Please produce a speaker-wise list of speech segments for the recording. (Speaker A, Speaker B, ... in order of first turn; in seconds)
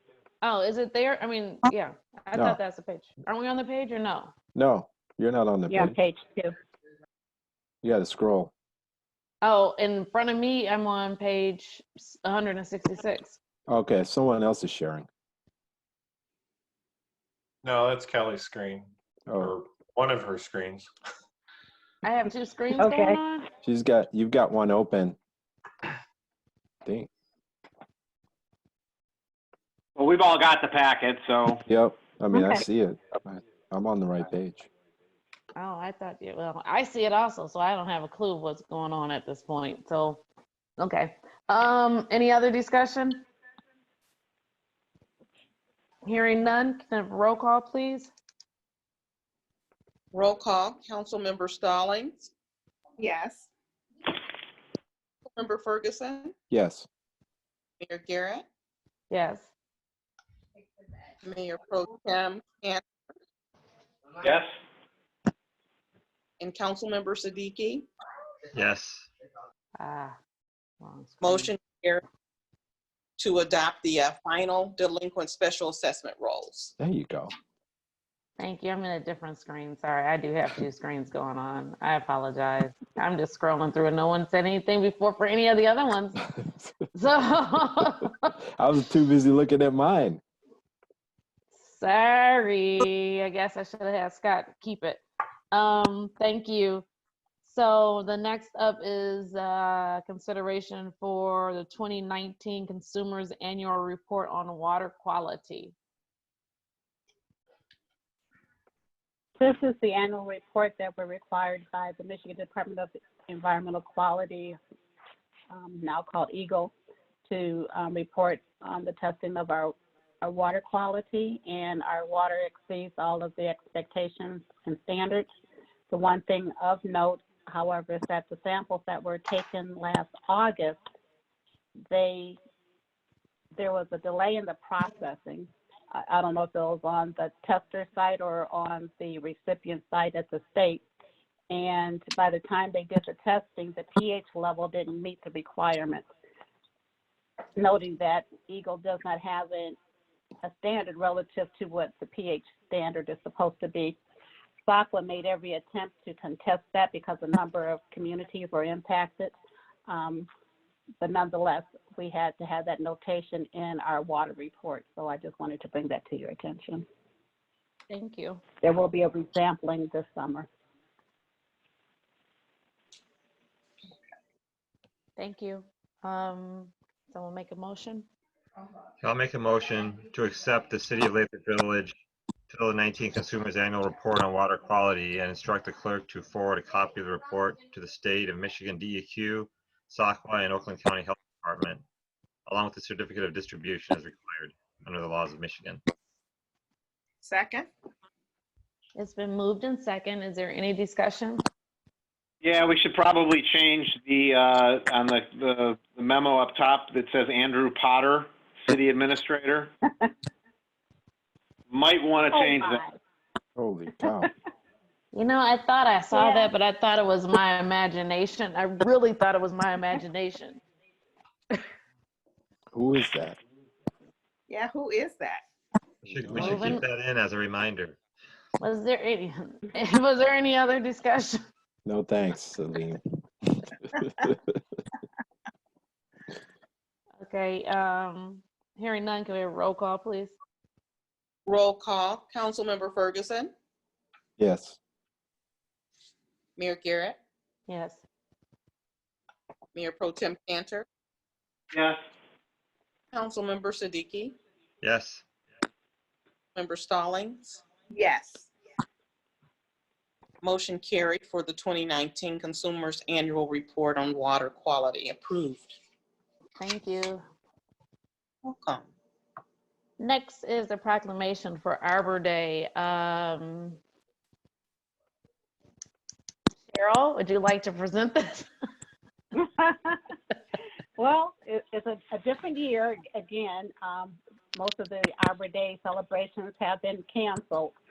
Speaker A: 0.4-4.3, 9.4-13.4, 22.0-23.5, 35.6-40.2, 40.8-43.3, 46.0-48.1, 59.1-59.5, 69.8-70.2, 70.8-71.5, 78.4-86.2, 87.0-88.1, 91.5-96.9, 97.4-105.8, 167.9-168.4, 175.2-178.1, 199.0-201.4, 215.1-220.6, 226.3-226.8, 228.6-231.4, 237.2-240.3, 247.7-248.0, 266.6-267.2, 270.0-273.8, 276.7-278.5
Speaker B: 2.3-2.6, 4.5-6.0, 7.8-8.5, 13.7-15.1, 19.3-19.6, 23.6-25.2, 26.9-27.1, 31.7-34.7, 56.5-56.9, 76.8-77.3, 86.3-86.7, 88.6-90.2, 213.6-214.3, 222.7-223.4, 231.9-233.0, 233.6-234.5, 244.4-244.8
Speaker C: 5.7-6.5, 22.8-23.2, 32.3-32.6, 109.4-114.6, 115.5-116.7, 117.3-125.3, 125.9-130.8, 131.9-132.4, 133.6-140.8, 141.5-146.1, 147.6-149.8, 150.4-154.0, 154.7-159.3, 159.9-160.3, 161.0-166.8, 168.6-170.5, 212.3-213.0, 216.1-216.5, 279.4-280.0, 281.0-287.7
Speaker D: 17.6-20.9
Speaker E: 30.0-31.6, 64.2-64.5, 202.4-209.7, 211.7-212.8, 251.7-252.0
Speaker F: 50.1-52.3, 55.3-56.3, 57.8-58.5, 61.2-62.8, 66.4-67.9, 71.2-72.0, 73.2-76.7, 241.5-243.5, 246.6-247.2, 249.7-250.9, 253.1-254.3, 256.6-257.6, 260.4-265.8, 268.4-268.9
Speaker G: 53.0-53.5, 197.2-197.7, 224.5-225.4, 257.9-258.5
Speaker H: 68.5-69.1, 179.0-182.0, 182.5-191.8, 192.5-195.8, 226.0-228.0, 254.8-255.3